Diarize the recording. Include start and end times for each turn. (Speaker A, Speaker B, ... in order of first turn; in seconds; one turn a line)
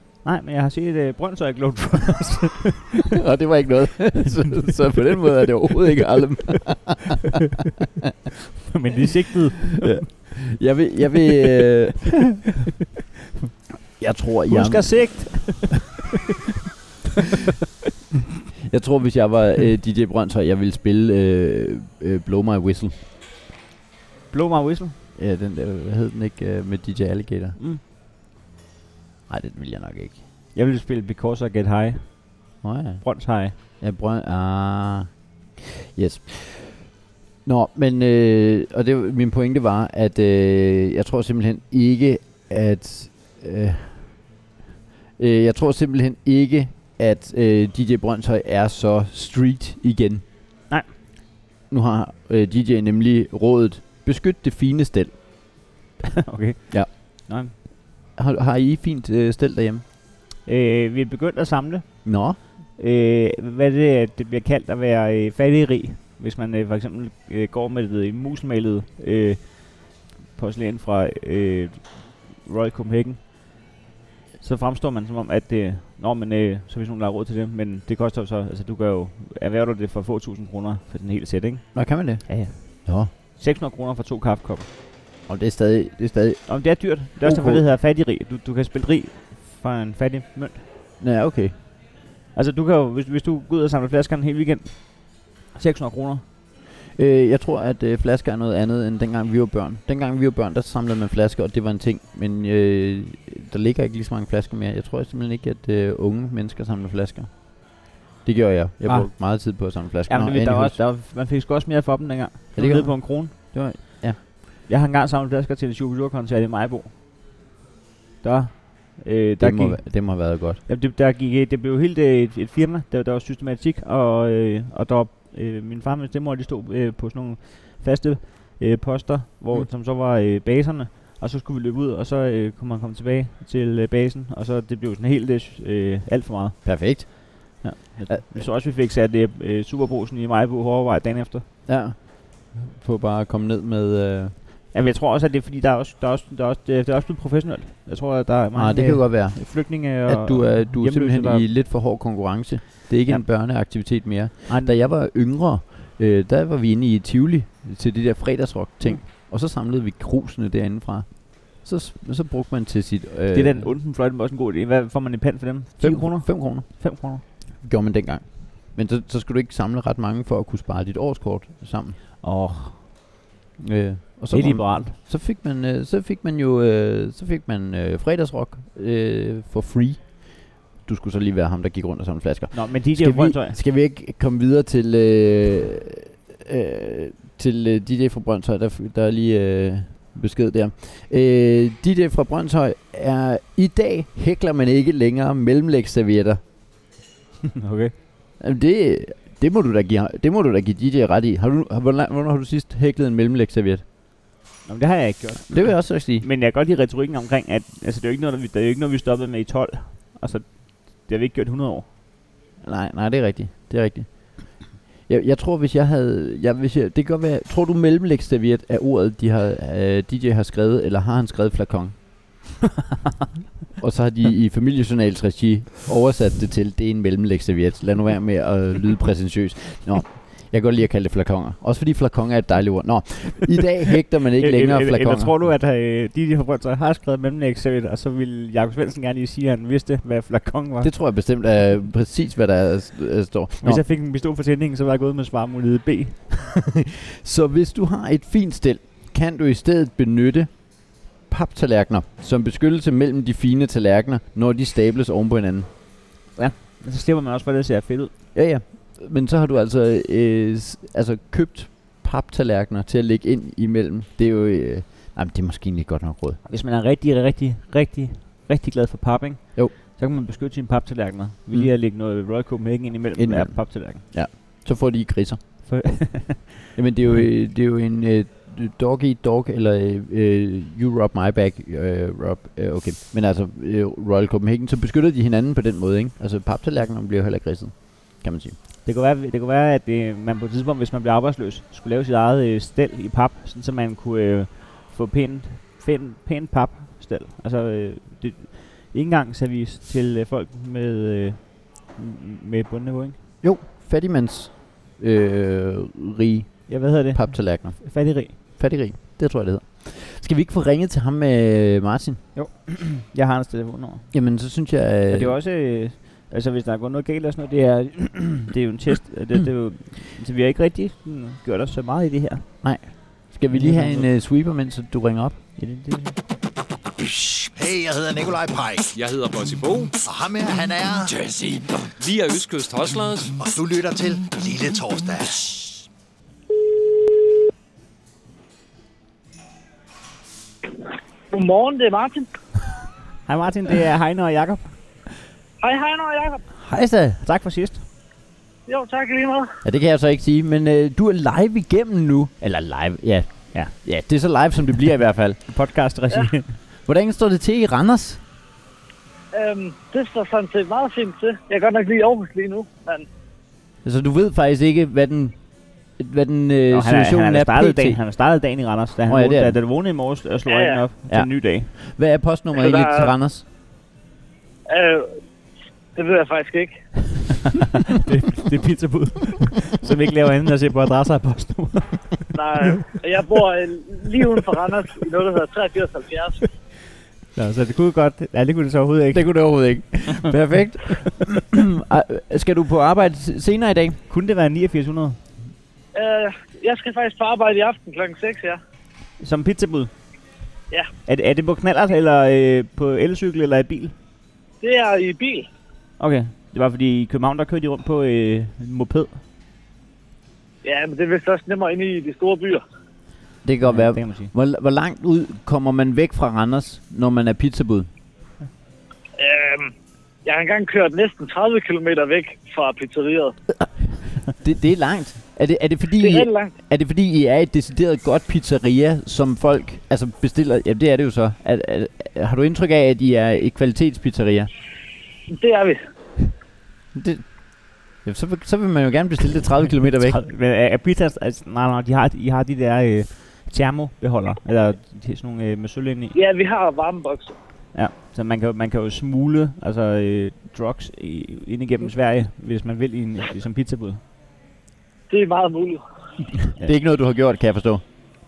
Speaker A: 0.2-2.9
Speaker B: 3.2-7.1
Speaker A: 8.7-10.1
Speaker B: 9.9-12.2
Speaker B: 14.0-15.6
Speaker A: 14.5-16.1
Speaker B: 18.6-22.9
Speaker A: 24.3-24.9
Speaker B: 25.2-27.6
Speaker B: 29.3-30.2
Speaker A: 30.5-32.4
Speaker B: 32.6-35.3
Speaker A: 33.0-33.5
Speaker B: 35.9-36.9
Speaker B: 37.5-44.2
Speaker B: 45.2-50.2
Speaker B: 51.7-55.1
Speaker A: 56.2-57.5
Speaker B: 58.2-59.8
Speaker A: 60.5-73.5
Speaker B: 62.0-62.4
Speaker A: 74.4-84.7
Speaker B: 81.7-83.1
Speaker B: 85.3-87.6
Speaker A: 86.5-90.7
Speaker B: 91.0-91.5
Speaker A: 92.3-96.2
Speaker B: 97.0-110.8
Speaker A: 108.8-109.5
Speaker A: 110.1-113.9
Speaker B: 112.6-114.2
Speaker A: 114.7-116.9
Speaker A: 118.2-141.5
Speaker B: 119.4-120.6
Speaker B: 136.6-138.5
Speaker B: 141.7-144.3
Speaker A: 144.7-151.5
Speaker B: 148.6-163.7
Speaker A: 154.5-154.8
Speaker A: 163.3-167.2
Speaker B: 165.8-172.0
Speaker A: 172.2-172.8
Speaker B: 173.6-196.4
Speaker A: 174.3-175.0
Speaker A: 182.5-183.6
Speaker A: 197.6-197.9
Speaker B: 198.4-203.8
Speaker A: 204.7-211.9
Speaker B: 205.5-206.3
Speaker B: 212.6-222.1
Speaker B: 223.8-235.3
Speaker A: 234.4-240.9
Speaker B: 240.8-243.8
Speaker A: 243.6-246.4
Speaker B: 246.8-255.7
Speaker A: 256.3-258.1
Speaker B: 258.3-266.4
Speaker A: 266.5-274.0
Speaker B: 273.2-276.1
Speaker A: 275.7-276.6
Speaker B: 276.8-288.6
Speaker A: 288.8-303.2
Speaker B: 303.4-312.2
Speaker A: 306.7-308.4
Speaker A: 312.4-314.1
Speaker B: 314.1-315.4
Speaker A: 315.1-323.0
Speaker B: 322.6-325.4
Speaker A: 323.5-324.1
Speaker A: 325.6-326.2
Speaker C: 327.0-328.9
Speaker D: 328.9-329.9
Speaker C: 330.0-331.6
Speaker D: 332.0-333.4
Speaker C: 333.4-335.9
Speaker E: 341.3-342.3
Speaker A: 343.3-344.7
Speaker E: 345.6-346.4
Speaker B: 346.6-347.2
Speaker A: 347.2-347.8
Speaker E: 348.7-349.5
Speaker B: 349.6-355.4
Speaker A: 355.5-356.6
Speaker B: 356.8-358.2
Speaker E: 359.3-363.1
Speaker B: 363.8-368.0
Speaker A: 366.7-371.7
Speaker B: 369.1-369.6
Speaker E: 370.5-370.8
Speaker B: 371.1-373.4
Speaker E: 372.6-373.1
Speaker E: 374.7-375.1
Speaker E: 375.9-376.8
Speaker A: 377.5-382.3
Speaker E: 382.4-386.4
Speaker A: 387.4-389.4
Speaker B: 389.1-394.0
Speaker A: 394.1-395.2
Speaker E: 395.9-398.6
Speaker A: 399.2-399.9
Speaker A: 401.1-403.9
Speaker E: 404.6-405.5
Speaker A: 406.0-409.2
Speaker E: 410.6-412.6
Speaker B: 413.4-417.9
Speaker A: 413.6-414.3
Speaker E: 419.2-419.7
Speaker E: 420.2-423.4
Speaker B: 424.4-434.5
Speaker E: 426.0-426.5
Speaker E: 435.3-435.8
Speaker B: 436.9-440.2
Speaker A: 440.1-446.1
Speaker E: 446.1-447.3
Speaker A: 447.7-454.0
Speaker E: 455.1-455.8
Speaker B: 456.6-457.8